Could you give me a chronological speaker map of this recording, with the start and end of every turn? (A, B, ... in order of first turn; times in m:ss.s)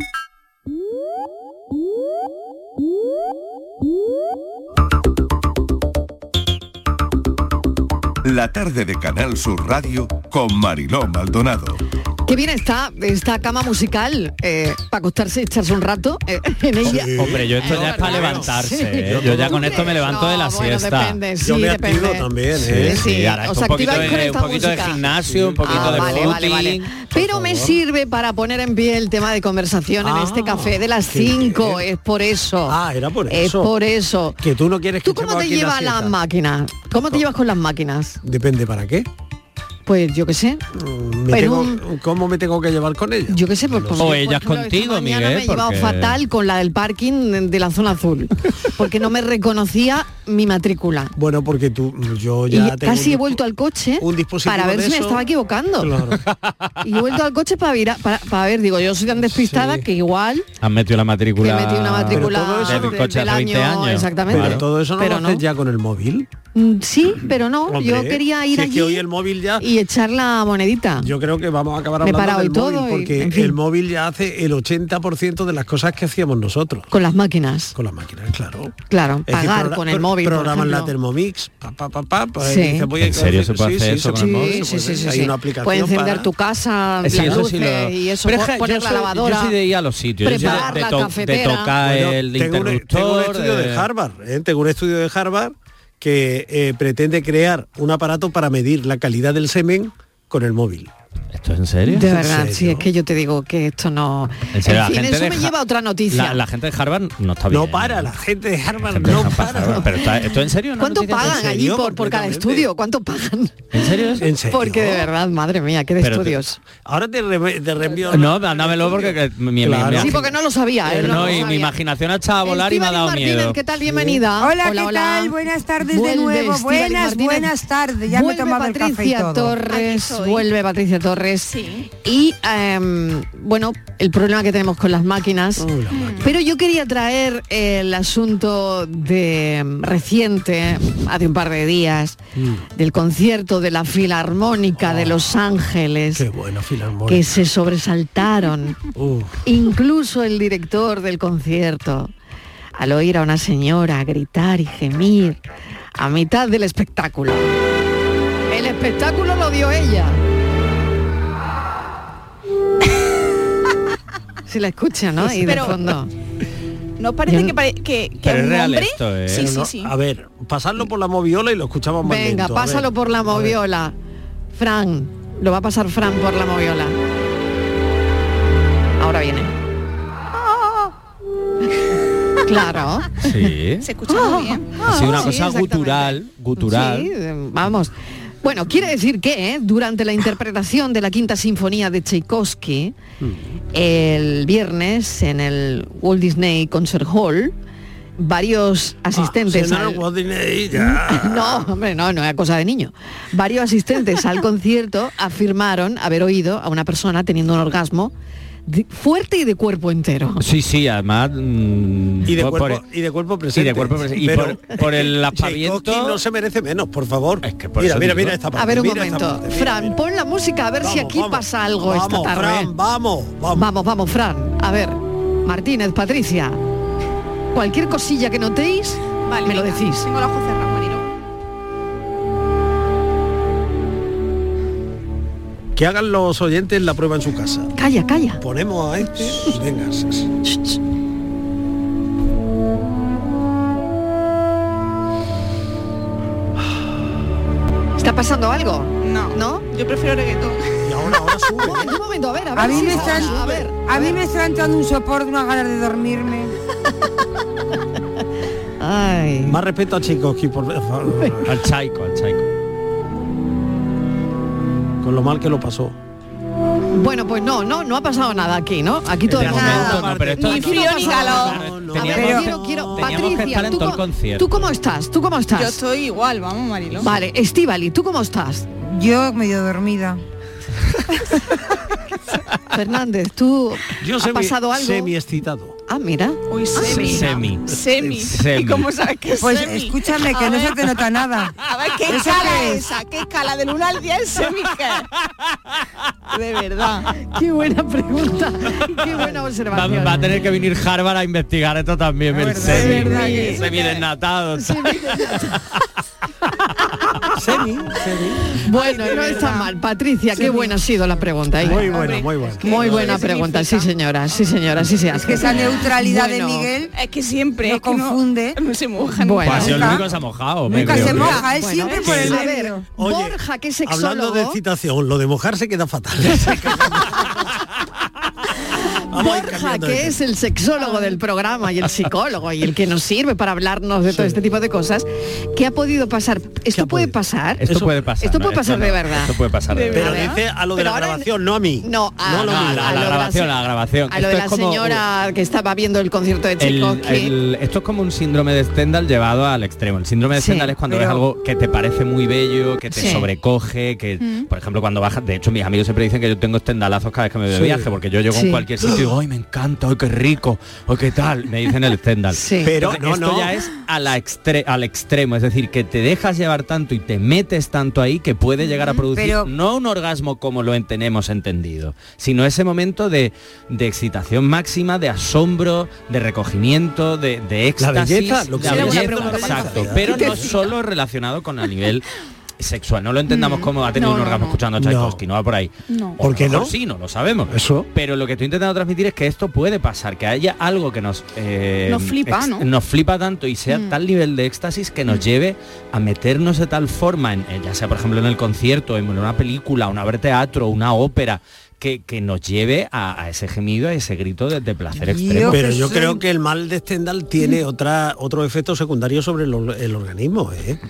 0:08.2-0:11.8 A
0:12.3-0:22.3 B
0:16.8-0:20.0 C
0:16.9-0:21.2 D
0:21.4-0:23.0 C
0:22.6-0:26.9 D
0:22.8-0:25.1 B
0:23.9-0:24.3 C
0:24.8-0:26.4 C
0:25.6-0:34.4 B
0:27.1-0:27.8 C
0:30.0-0:31.8 C
0:32.7-0:33.7 C
0:34.4-0:36.1 C
0:35.0-0:38.2 B
0:38.2-0:39.1 C
0:39.8-0:40.6 B
0:40.7-0:44.1 C
0:41.3-0:41.8 B
0:43.3-0:51.1 B
0:44.0-0:46.2 D
0:51.2-0:53.4 C
0:52.5-0:56.0 B
0:54.0-0:55.2 C
0:55.8-0:56.2 C
0:56.8-1:00.4 B
0:59.1-0:59.8 C
1:00.6-1:04.6 D
1:01.4-1:05.4 B
1:02.1-1:03.0 C
1:04.3-1:06.3 C
1:06.5-1:09.0 B
1:07.7-1:09.7 C
1:09.6-1:11.1 B
1:11.0-1:16.9 C
1:12.0-1:13.6 B
1:16.9-1:17.7 B
1:17.7-1:18.7 C
1:18.9-1:20.9 B
1:19.3-1:26.3 C
1:22.4-1:22.9 B
1:23.0-1:24.6 D
1:24.2-1:29.5 B
1:27.0-1:33.9 D
1:27.2-1:27.4 C
1:30.2-1:31.7 B
1:30.3-1:30.8 C
1:31.8-1:40.9 C
1:41.3-1:42.1 D
1:41.9-1:46.4 B
1:42.0-1:42.9 C
1:44.5-1:45.5 D
1:46.1-1:48.1 D
1:47.5-1:49.9 C
1:48.8-1:51.4 D
1:50.8-1:53.6 B
1:51.2-1:52.7 C
1:53.7-1:54.3 D
1:54.2-1:55.1 C
1:54.5-1:56.6 B
1:56.0-1:56.4 D
1:56.8-2:00.3 C
1:58.1-2:00.3 D
2:00.0-2:01.7 B
2:00.8-2:01.5 C
2:01.0-2:03.6 D
2:02.4-2:07.5 B
2:03.8-2:04.2 C
2:04.4-2:09.6 E
2:08.1-2:22.2 B
2:09.6-2:10.5 F
2:11.5-2:11.9 F
2:15.6-2:16.3 C
2:15.9-2:16.3 F
2:22.4-2:22.6 C
2:22.7-2:26.2 B
2:24.8-2:25.4 C
2:26.1-2:27.3 C
2:27.1-2:28.8 B
2:28.9-2:29.4 C
2:29.4-2:32.1 B
2:32.8-2:35.4 B
2:36.0-2:37.5 B
2:38.5-2:40.2 B
2:44.5-2:46.1 B
2:45.4-2:45.8 F
2:47.0-2:49.9 F
2:47.3-2:47.5 B
2:48.2-2:49.5 D
2:49.3-2:53.6 C
2:52.0-2:53.9 B
2:54.5-2:57.0 B
2:59.0-2:59.5 B
3:02.4-3:03.5 B
3:03.2-3:03.9 D
3:03.8-3:04.7 F
3:04.1-3:13.0 B
3:04.8-3:07.1 D
3:13.2-3:13.4 C
3:13.7-3:17.5 B
3:18.2-3:20.0 B
3:19.1-3:21.7 C
3:20.7-3:28.1 B
3:28.7-3:30.4 B
3:30.4-3:32.8 D
3:32.2-3:39.9 C
3:33.5-3:36.2 D
3:37.4-3:38.4 D
3:38.6-3:42.7 B
3:40.8-3:43.7 C
3:43.5-3:46.6 B
3:47.5-3:50.1 B
3:49.3-3:51.0 F
3:55.7-3:57.7 C
3:57.8-3:58.4 B
3:58.4-4:00.3 C
4:08.0-4:09.6 B
4:09.0-4:11.6 F
4:10.8-4:12.0 C
4:11.6-4:14.2 B
4:12.6-4:16.5 E
4:12.7-4:13.2 C
4:12.9-4:13.5 F
4:18.8-4:19.6 B
4:19.4-4:21.5 C
4:21.4-4:22.4 D
4:25.0-4:25.9 C
4:26.9-4:35.8 B
4:29.3-4:33.2 C
4:29.3-4:34.5 D
4:30.4-4:31.6 F
4:32.1-4:32.5 E
4:35.5-4:37.1 F
4:37.0-4:38.7 B
4:38.8-4:40.2 E
4:42.7-4:45.1 B
4:44.0-4:45.8 C
4:45.9-4:47.1 B
4:46.5-4:50.9 F
4:46.8-4:48.9 D
4:49.4-4:52.9 E
4:51.6-4:55.1 F
4:56.3-4:57.1 F
4:57.1-5:00.4 B
4:59.7-5:05.4 D
5:02.3-5:03.5 E
5:02.8-5:04.0 F
5:04.6-5:05.6 B
5:07.3-5:08.6 C
5:08.6-5:12.1 B
5:08.7-5:09.7 F
5:11.6-5:13.3 C
5:11.7-5:13.9 F
5:12.6-5:16.7 B
5:15.1-5:16.9 E
5:16.9-5:19.9 F
5:17.6-5:18.6 E
5:19.2-5:19.8 B
5:19.4-5:21.4 D
5:19.6-5:20.0 E
5:20.7-5:22.8 E
5:20.7-5:27.4 C
5:21.1-5:24.6 B
5:29.1-5:30.2 C
5:29.1-5:39.3 B
5:34.0-5:34.4 C
5:36.7-5:37.2 C
5:37.6-5:40.2 D
5:39.7-5:40.4 F
5:39.9-5:41.3 B
5:39.9-5:43.2 C
5:41.8-5:43.5 B
5:42.4-5:45.0 D
5:44.1-5:47.3 B
5:46.6-6:22.0 D
5:50.4-5:50.7 B
5:50.8-5:51.2 E
5:52.9-5:53.3 B
5:54.2-5:54.5 F
5:57.5-5:57.8 C
5:58.3-5:58.6 B
6:02.3-6:02.7 B
6:02.6-6:03.5 C
6:09.1-6:09.5 E
6:17.8-6:20.5 C
6:18.6-6:20.7 F
6:22.6-6:45.6 D
6:23.3-6:24.6 F
6:24.8-6:25.2 C
6:25.9-6:26.2 F
6:26.2-6:26.7 C
6:27.5-6:27.9 C
6:31.9-6:32.6 F
6:33.7-6:34.0 F
6:44.9-6:46.2 E
6:45.5-6:50.8 C